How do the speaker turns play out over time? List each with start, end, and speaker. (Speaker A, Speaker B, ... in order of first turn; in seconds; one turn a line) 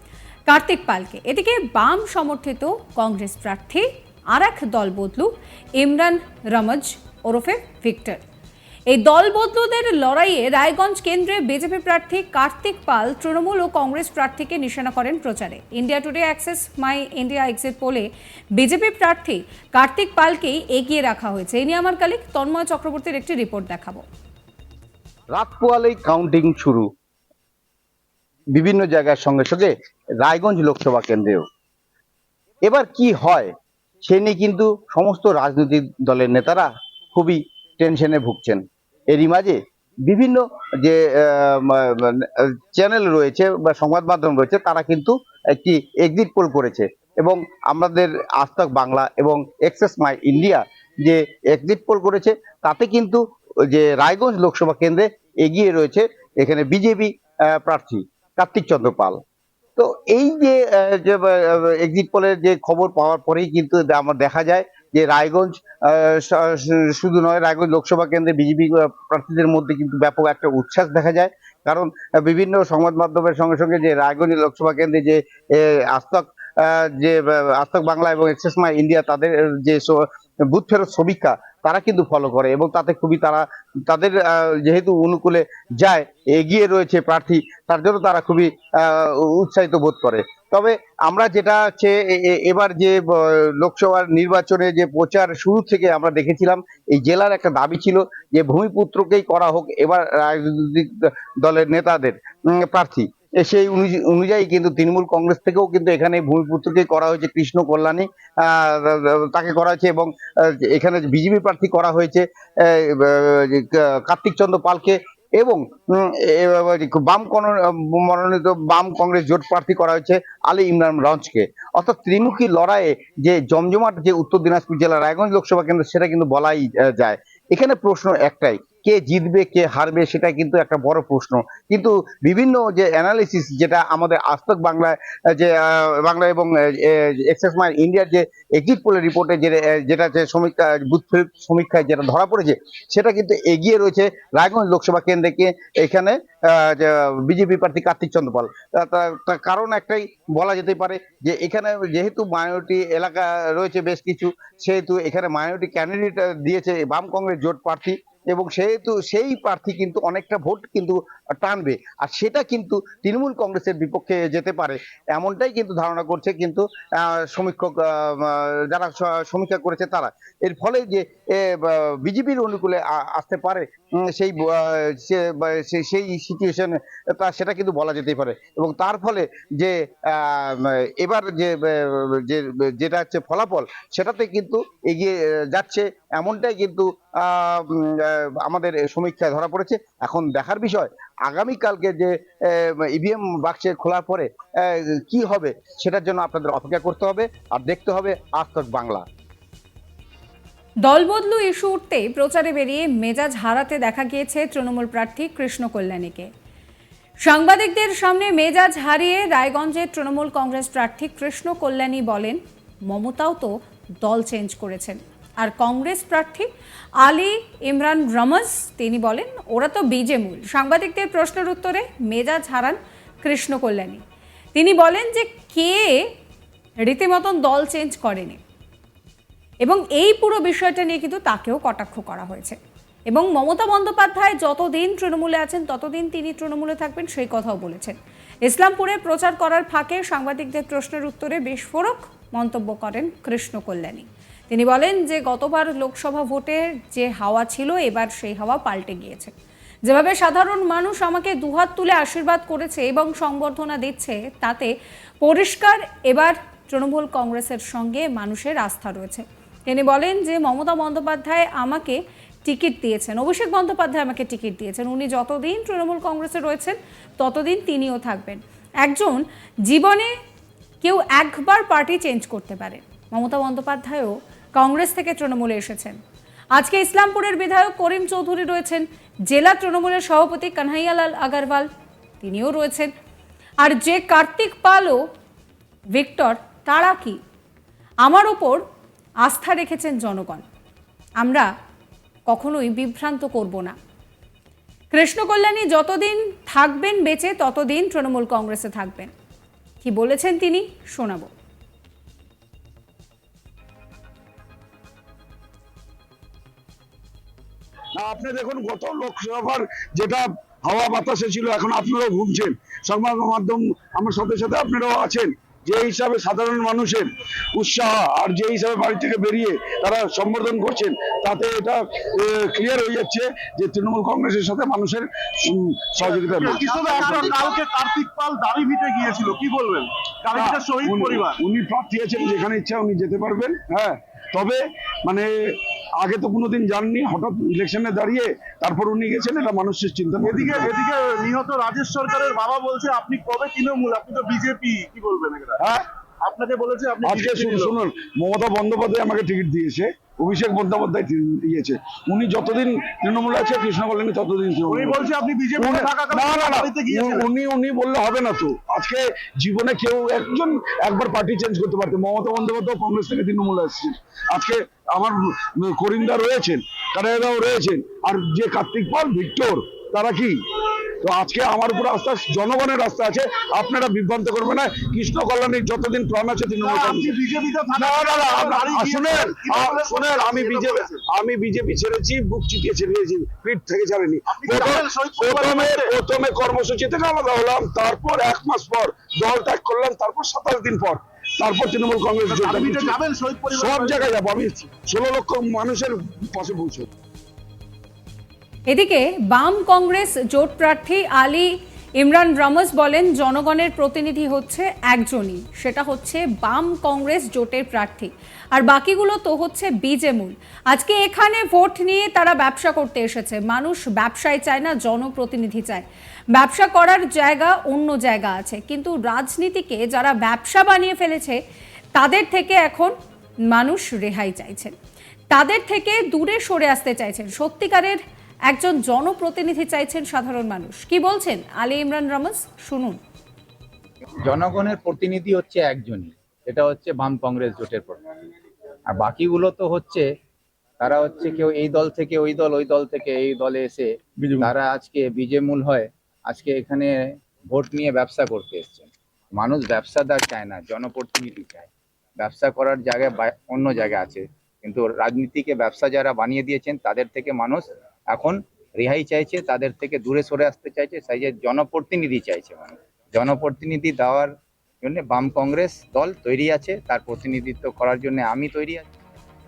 Speaker A: 0.5-8.2
Speaker A: 8.9-24.0
Speaker B: 25.3-26.9
Speaker B: 28.5-31.4
Speaker B: 32.6-33.5
Speaker B: 34.0-59.2
Speaker B: 59.8-199.0
Speaker A: 200.8-206.3
Speaker A: 207.2-216.5
Speaker A: 217.0-224.0
Speaker A: 224.5-226.0
Speaker A: 226.8-228.4
Speaker A: 229.6-232.6
Speaker A: 233.1-249.3
Speaker A: 249.8-270.1
Speaker A: 270.8-276.0
Speaker A: 276.5-281.7
Speaker A: 282.2-282.9
Speaker A: 283.6-285.0
Speaker A: 285.9-287.2
Speaker A: 288.0-288.6
Speaker A: 289.2-290.4
Speaker A: 291.2-291.5
Speaker A: 292.3-293.7
Speaker A: 294.9-299.1
Speaker A: 299.8-301.3
Speaker C: 307.9-327.3
Speaker D: 326.0-331.4
Speaker C: 330.3-340.7
Speaker D: 340.2-345.6
Speaker C: 345.6-345.8
Speaker D: 346.2-347.7
Speaker C: 347.0-355.0
Speaker D: 354.7-357.3
Speaker C: 355.6-370.4
Speaker C: 371.0-377.1
Speaker D: 376.6-381.0
Speaker C: 377.7-393.0
Speaker D: 384.3-385.9
Speaker D: 392.3-394.1
Speaker C: 393.5-396.9
Speaker A: 398.7-421.4
Speaker A: 421.9-422.9
Speaker A: 423.5-424.7
Speaker A: 425.3-433.0
Speaker E: 434.2-438.0
Speaker E: 438.9-440.0
Speaker E: 440.8-446.9
Speaker E: 447.5-464.3
Speaker E: 464.8-468.8